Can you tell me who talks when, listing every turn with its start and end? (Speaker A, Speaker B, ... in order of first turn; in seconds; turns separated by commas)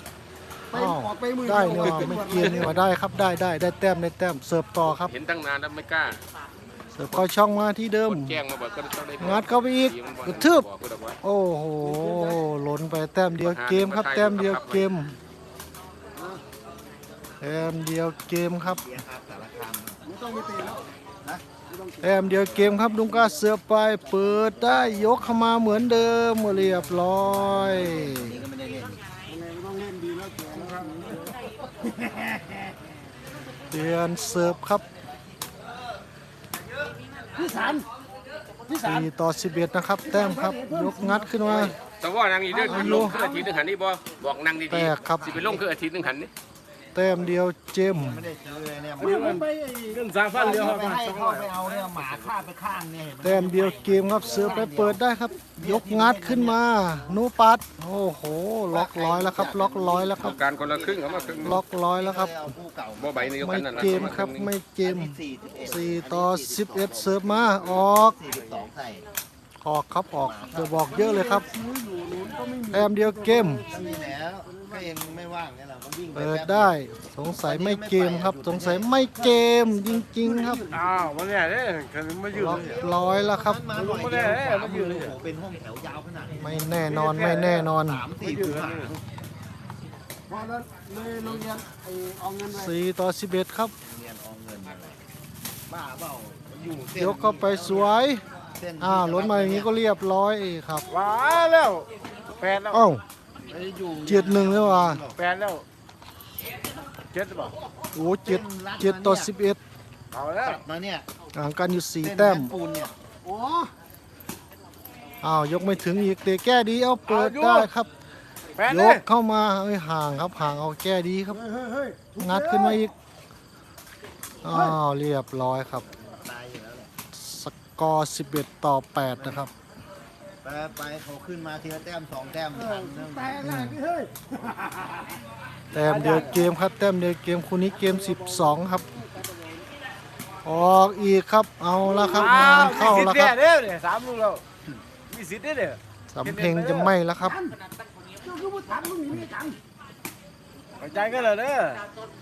Speaker A: 0.7-2.7, Speaker B: 0.7-5.1, Speaker C: 1.9-2.5, Speaker C: 5.0-6.2, Speaker B: 7.0-8.4, Speaker C: 8.1-11.2, Speaker B: 9.2-10.7, Speaker B: 11.2-15.2, Speaker A: 11.8-12.4, Speaker C: 13.4-14.9, Speaker A: 16.1-16.4, Speaker B: 17.4-18.8, Speaker D: 18.6-20.0, Speaker A: 20.1-20.8, Speaker A: 21.7-23.2, Speaker B: 22.0-28.4, Speaker D: 24.5-25.3, Speaker D: 26.6-29.0, Speaker A: 29.3-32.7, Speaker B: 33.7-34.9, Speaker A: 37.3-37.9, Speaker A: 38.7-39.1, Speaker B: 38.9-41.8, Speaker A: 40.0-41.7, Speaker C: 41.5-46.3, Speaker A: 42.5-43.5, Speaker B: 42.6-43.2, Speaker B: 44.7-45.6, Speaker B: 47.0-48.3, Speaker D: 48.0-49.5, Speaker A: 49.0-50.0, Speaker E: 49.0-51.5, Speaker D: 50.3-55.0, Speaker B: 53.2-60.4, Speaker D: 55.6-57.2, Speaker D: 58.7-69.1, Speaker C: 60.2-61.6, Speaker B: 61.4-62.5, Speaker C: 63.0-64.5, Speaker B: 63.4-68.2, Speaker B: 69.6-71.5, Speaker D: 70.2-71.0, Speaker A: 70.9-75.0, Speaker B: 72.7-73.7, Speaker D: 73.7-76.7, Speaker B: 76.1-80.6, Speaker D: 77.4-78.9, Speaker A: 79.2-81.1, Speaker E: 80.7-82.8, Speaker B: 82.3-83.6, Speaker D: 82.3-89.0, Speaker E: 83.7-85.2, Speaker B: 86.4-88.0, Speaker E: 86.9-87.7, Speaker E: 88.2-88.9, Speaker A: 90.3-92.8, Speaker B: 92.5-93.7, Speaker D: 93.8-95.0, Speaker D: 95.7-97.9, Speaker B: 96.9-98.2, Speaker D: 98.6-99.7, Speaker B: 98.8-100.9, Speaker E: 100.9-101.9, Speaker E: 102.4-102.8, Speaker B: 102.7-103.0, Speaker D: 103.5-105.2, Speaker B: 104.1-105.0, Speaker E: 105.2-105.6, Speaker E: 107.1-107.5, Speaker B: 108.0-109.6, Speaker D: 108.2-109.3, Speaker E: 110.1-110.6, Speaker D: 110.4-111.1, Speaker B: 111.3-112.5, Speaker D: 112.0-112.9, Speaker A: 113.2-113.7, Speaker B: 115.2-117.9, Speaker E: 117.1-117.7, Speaker E: 118.6-119.0, Speaker B: 118.7-121.4, Speaker A: 121.3-122.9, Speaker B: 122.2-122.9, Speaker B: 124.4-125.8, Speaker A: 124.5-124.8, Speaker D: 125.9-126.9, Speaker B: 127.1-129.5, Speaker D: 129.2-129.4, Speaker D: 130.4-133.5, Speaker A: 132.5-135.2, Speaker B: 133.4-133.8, Speaker B: 135.7-138.8, Speaker E: 135.8-136.4, Speaker A: 136.0-136.5, Speaker A: 137.7-139.7, Speaker B: 140.4-143.4, Speaker A: 141.8-143.0, Speaker E: 142.1-144.4, Speaker E: 145.1-146.9, Speaker B: 146.1-147.4, Speaker A: 147.2-147.6, Speaker A: 148.2-149.6, Speaker E: 150.8-151.8